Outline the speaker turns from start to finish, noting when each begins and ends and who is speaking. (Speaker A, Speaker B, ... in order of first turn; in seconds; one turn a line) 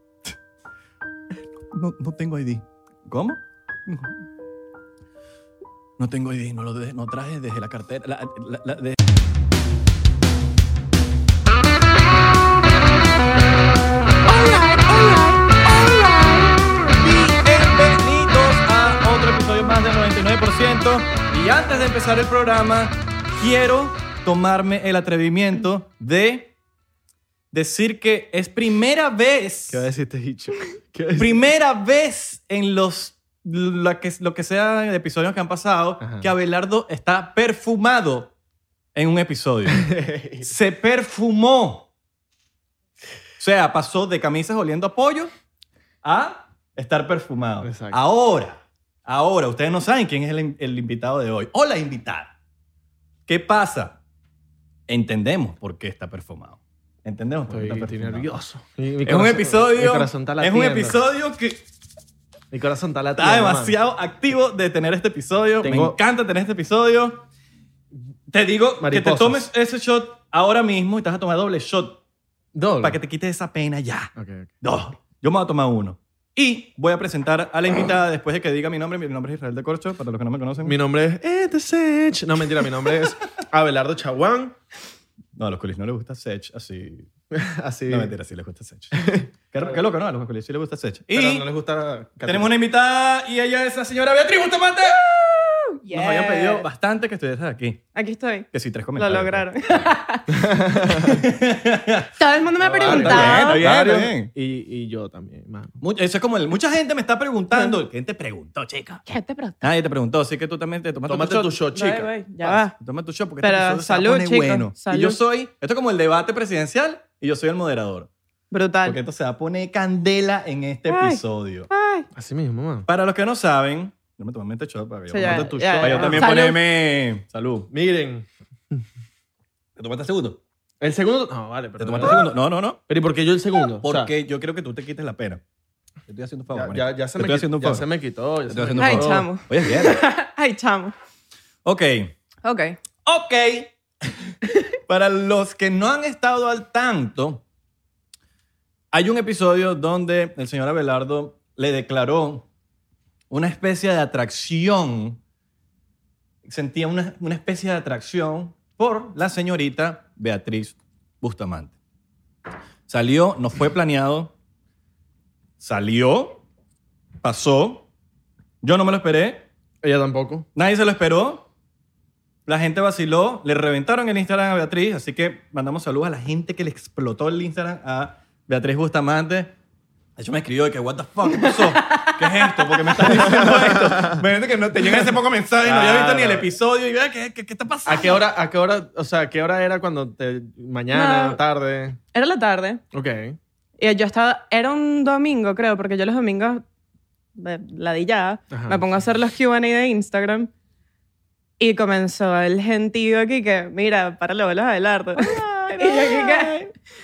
Speaker A: 1.7-4.1
Speaker A: 6.0-8.9
Speaker B: 14.3-16.5
Speaker A: 16.9-26.5
Speaker A: 27.5-29.9
Speaker C: 29.7-31.4
Speaker A: 31.2-38.3
Speaker C: 36.0-36.3
Speaker A: 38.9-39.9
Speaker C: 39.7-40.5
Speaker A: 40.4-41.9
Speaker A: 43.4-45.3
Speaker A: 46.0-52.3
Speaker C: 47.6-48.0
Speaker A: 53.3-54.0
Speaker A: 54.9-58.3
Speaker C: 57.5-61.0
Speaker A: 59.0-61.6
Speaker C: 62.5-63.8
Speaker A: 63.2-67.2
Speaker C: 65.6-66.0
Speaker A: 68.3-72.0
Speaker C: 68.8-69.5
Speaker C: 72.5-73.0
Speaker A: 72.8-80.8
Speaker C: 74.2-74.5
Speaker C: 80.6-84.5
Speaker A: 85.3-87.1
Speaker C: 87.3-88.1
Speaker A: 87.9-91.5
Speaker C: 89.0-89.8
Speaker C: 91.1-92.5
Speaker A: 92.2-95.2
Speaker B: 95.7-96.6
Speaker A: 95.8-97.8
Speaker B: 97.9-100.3
Speaker A: 98.5-99.9
Speaker C: 100.3-101.2
Speaker A: 100.8-102.1
Speaker B: 102.2-103.7
Speaker C: 102.6-105.8
Speaker A: 102.8-104.3
Speaker A: 105.8-109.0
Speaker B: 109.0-109.6
Speaker A: 109.6-111.5
Speaker C: 111.0-112.1
Speaker B: 111.7-112.7
Speaker A: 112.4-118.1
Speaker B: 113.4-115.2
Speaker B: 118.5-119.0
Speaker A: 118.8-121.7
Speaker B: 120.9-122.1
Speaker C: 122.1-122.9
Speaker A: 122.9-127.7
Speaker B: 125.1-126.6
Speaker C: 125.2-126.3
Speaker C: 127.7-128.8
Speaker A: 129.8-130.4
Speaker C: 130.8-132.3
Speaker A: 131.8-132.8
Speaker C: 132.9-134.1
Speaker A: 133.8-135.4
Speaker A: 136.1-137.8
Speaker C: 136.5-139.3
Speaker A: 138.5-140.0
Speaker B: 138.8-140.9
Speaker A: 141.6-142.1
Speaker B: 142.4-142.8
Speaker A: 143.0-143.7
Speaker A: 144.9-147.4
Speaker A: 148.9-152.4
Speaker A: 153.3-155.2
Speaker A: 156.4-161.7
Speaker A: 162.9-164.3
Speaker A: 165.6-166.4
Speaker A: 167.2-167.8
Speaker A: 168.6-169.5
Speaker C: 169.8-170.5
Speaker A: 170.5-171.5
Speaker A: 172.4-179.5
Speaker A: 180.2-188.2
Speaker C: 183.1-184.1
Speaker C: 185.6-186.4
Speaker C: 187.8-192.0
Speaker B: 190.9-191.4
Speaker B: 192.1-192.8
Speaker C: 192.9-193.4
Speaker B: 193.8-196.6
Speaker B: 197.4-200.5
Speaker C: 198.5-198.8
Speaker B: 201.6-206.5
Speaker A: 205.2-206.7